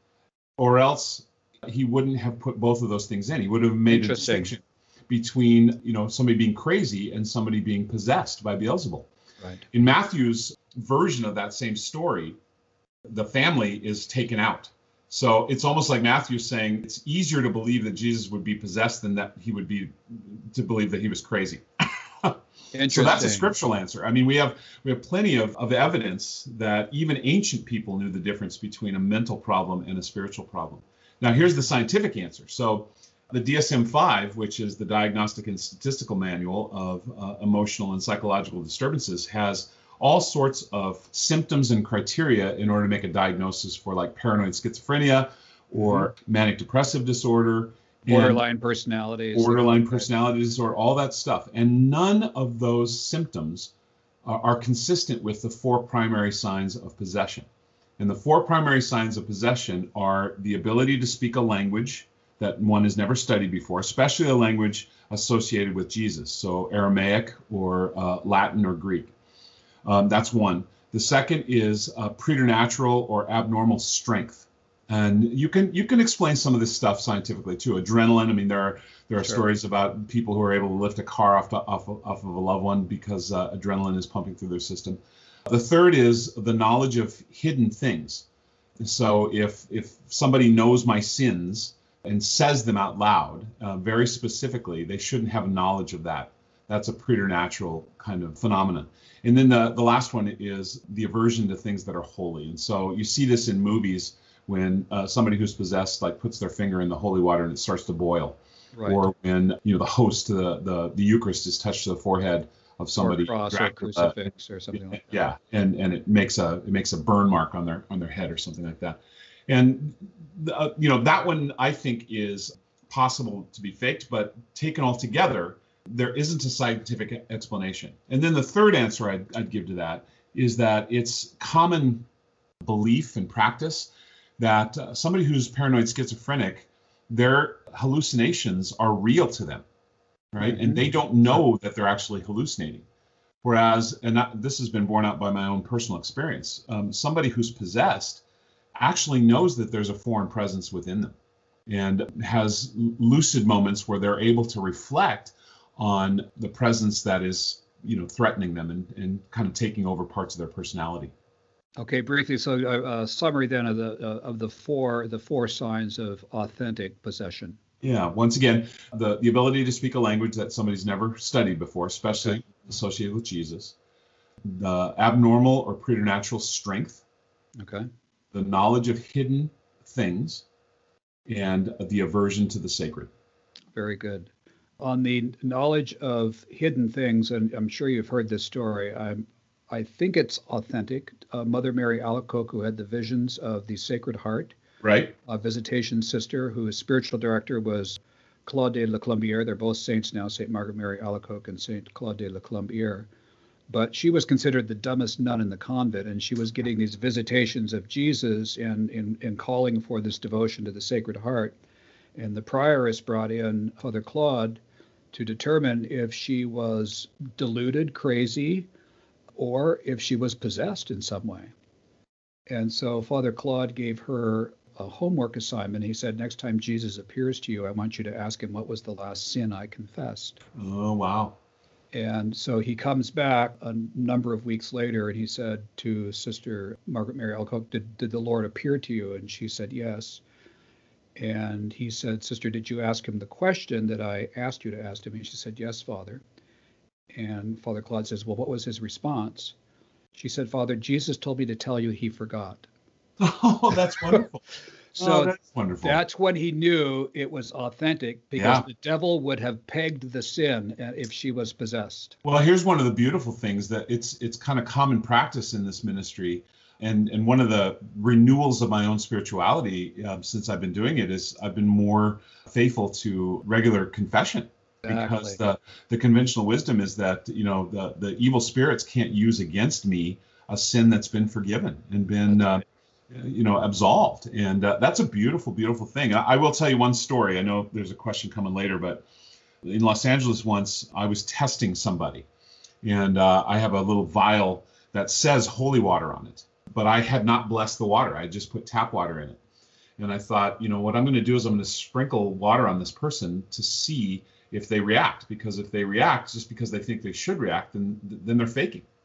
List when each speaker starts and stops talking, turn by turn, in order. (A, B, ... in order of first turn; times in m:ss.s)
0:00.6-0:09.1 A
0:03.9-0:04.5 B
0:09.7-0:12.4 A
0:13.1-0:21.6 A
0:22.2-0:48.4 A
0:22.7-0:23.5 B
0:48.1-0:50.1 B
0:49.3-0:53.7 A
0:54.2-0:57.5 A
0:58.0-1:09.1 A
1:09.8-1:28.3 A
1:28.8-2:12.1 A
1:48.7-1:49.0 B
1:53.0-1:55.2 B
2:12.6-2:19.6 A
2:20.3-2:22.8 A
2:20.4-2:20.9 B
2:23.4-2:28.2 A
2:28.8-2:31.1 A
2:31.7-2:41.1 A
2:41.8-2:47.6 B
2:47.8-2:53.8 A
2:54.4-2:57.0 A
2:57.6-2:57.9 B
2:58.3-3:00.4 A
3:01.3-3:03.1 A
3:03.8-3:14.6 B
3:14.8-3:15.1 A
3:15.3-3:23.1 B
3:23.7-3:31.6 B
3:32.2-3:34.6 B
3:35.1-3:38.7 B
3:39.4-3:41.5 B
3:42.5-3:50.4 B
3:50.6-3:51.4 A
3:51.9-4:00.2 B
4:01.2-4:06.2 B
4:07.1-4:09.6 B
4:10.1-4:12.7 B
4:13.2-4:14.4 A
4:14.0-4:14.2 B
4:15.0-4:16.0 A
4:15.0-4:22.2 B
4:18.4-4:18.6 A
4:22.2-4:49.0 A
4:34.8-4:35.4 B
4:49.6-4:52.3 A
4:52.8-4:59.4 A
5:00.0-5:08.9 A